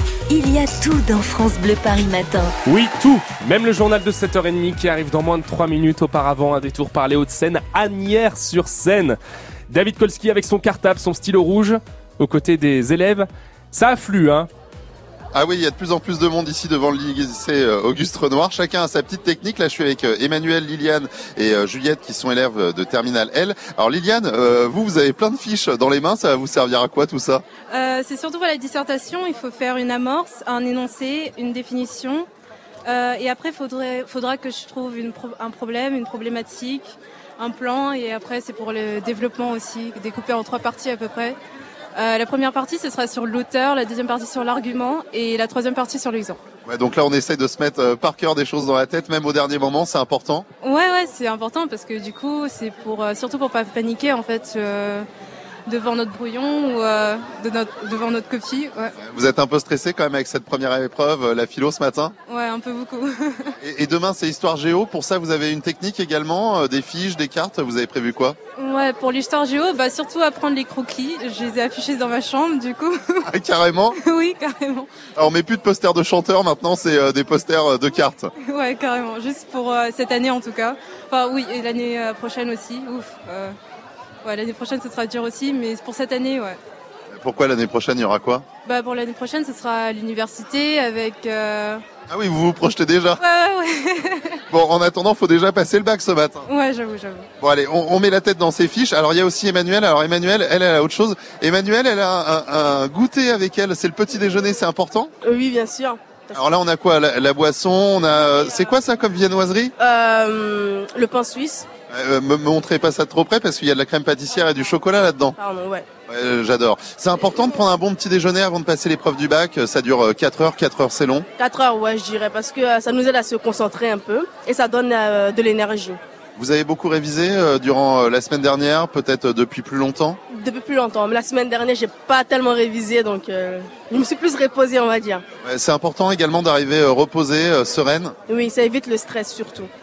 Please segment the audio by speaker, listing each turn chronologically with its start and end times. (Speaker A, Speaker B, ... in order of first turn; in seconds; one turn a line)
Speaker A: 0.3-2.5
Speaker B: 2.6-9.2
Speaker B: 9.7-14.5
Speaker C: 15.3-27.4
Speaker D: 27.7-32.3
Speaker D: 32.9-41.4
Speaker D: 42.0-46.4
Speaker C: 46.7-50.5
Speaker D: 50.6-55.1
Speaker D: 55.7-59.0
Speaker C: 59.0-62.1
Speaker D: 62.3-63.5
Speaker C: 63.6-68.4
Speaker D: 68.5-73.3
Speaker C: 73.3-74.0
Speaker D: 73.9-74.9
Speaker C: 75.2-78.3
Speaker D: 78.4-83.5
Speaker D: 84.2-86.6
Speaker C: 87.1-88.5
Speaker D: 88.6-91.8
Speaker C: 92.1-93.2
Speaker D: 93.2-94.4
Speaker C: 94.5-96.5
Speaker D: 96.5-97.3
Speaker C: 97.4-105.1
Speaker E: 105.2-106.4
Speaker C: 106.3-109.7
Speaker E: 109.8-111.7
Speaker C: 111.9-115.4
Speaker E: 115.4-115.9
Speaker C: 116.1-121.3
Speaker E: 121.4-126.0
Speaker C: 126.4-130.2
Speaker E: 130.3-135.2
Speaker C: 135.4-138.2
Speaker E: 138.3-139.7